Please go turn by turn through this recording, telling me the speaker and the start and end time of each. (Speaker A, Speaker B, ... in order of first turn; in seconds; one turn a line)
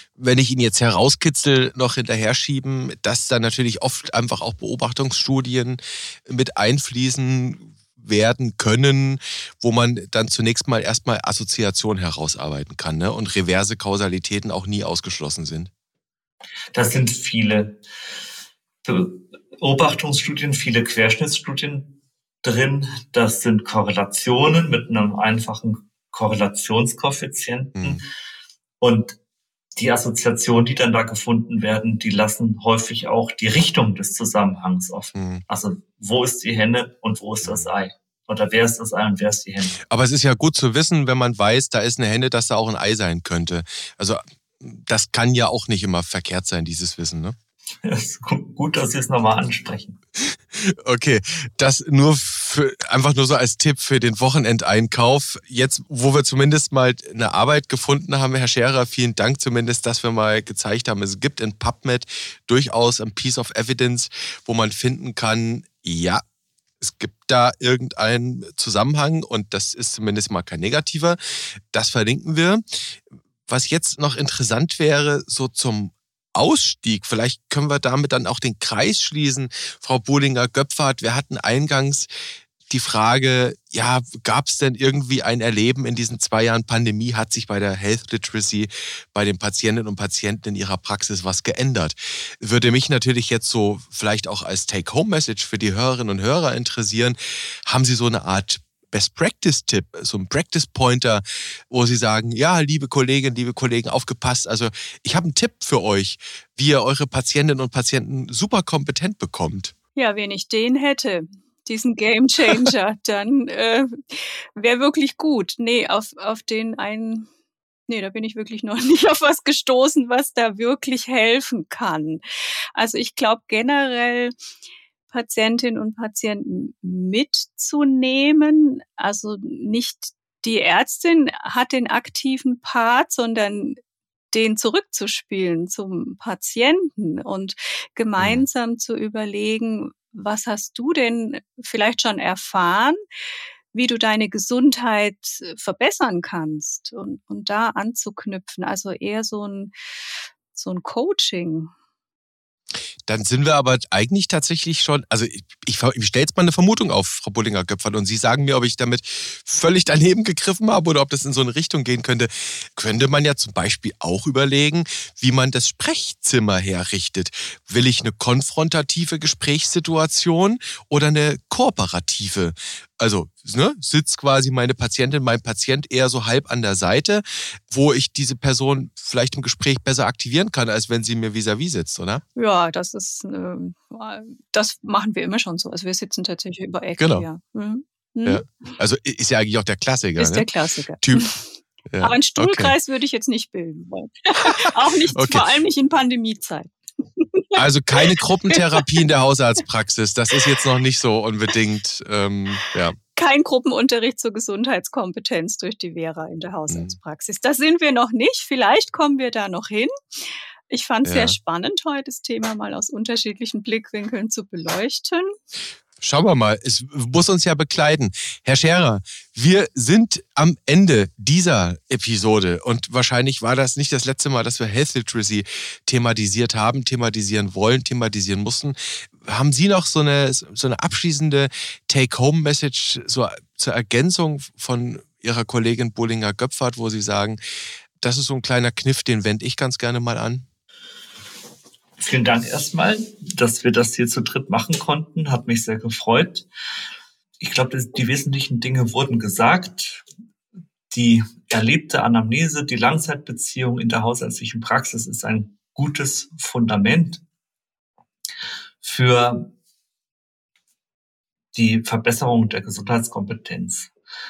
Speaker A: 0.1-15.7
Speaker B: 16.7-17.8
Speaker B: 18.8-28.0
Speaker B: 28.8-29.2
Speaker B: 29.8-39.8
Speaker A: 35.1-35.4
Speaker A: 37.4-37.7
Speaker A: 39.8-47.4
Speaker B: 47.8-50.0
Speaker A: 50.2-66.2
Speaker A: 66.8-72.9
Speaker A: 73.5-82.1
Speaker A: 82.7-109.7
Speaker C: 110.0-117.3
Speaker C: 117.9-122.2
Speaker C: 122.8-124.3
Speaker C: 125.1-133.8
Speaker C: 134.3-143.0
Speaker A: 138.2-138.4
Speaker C: 143.7-149.7
Speaker C: 150.5-151.7
Speaker A: 153.1-182.2
Speaker C: 182.3-188.7
Speaker A: 187.0-187.3
Speaker A: 188.2-190.5
Speaker C: 190.2-191.4
Speaker A: 191.0-191.3
Speaker A: 191.9-192.7
Speaker C: 192.0-198.8
Speaker A: 195.1-195.5
Speaker A: 197.5-202.9
Speaker C: 203.2-209.9
Speaker C: 210.7-215.3
Speaker A: 211.0-211.3
Speaker A: 216.0-237.4
Speaker A: 238.0-240.4
Speaker B: 242.0-246.4
Speaker B: 247.4-250.0
Speaker B: 250.9-257.2
Speaker B: 258.8-259.5
Speaker B: 261.5-263.9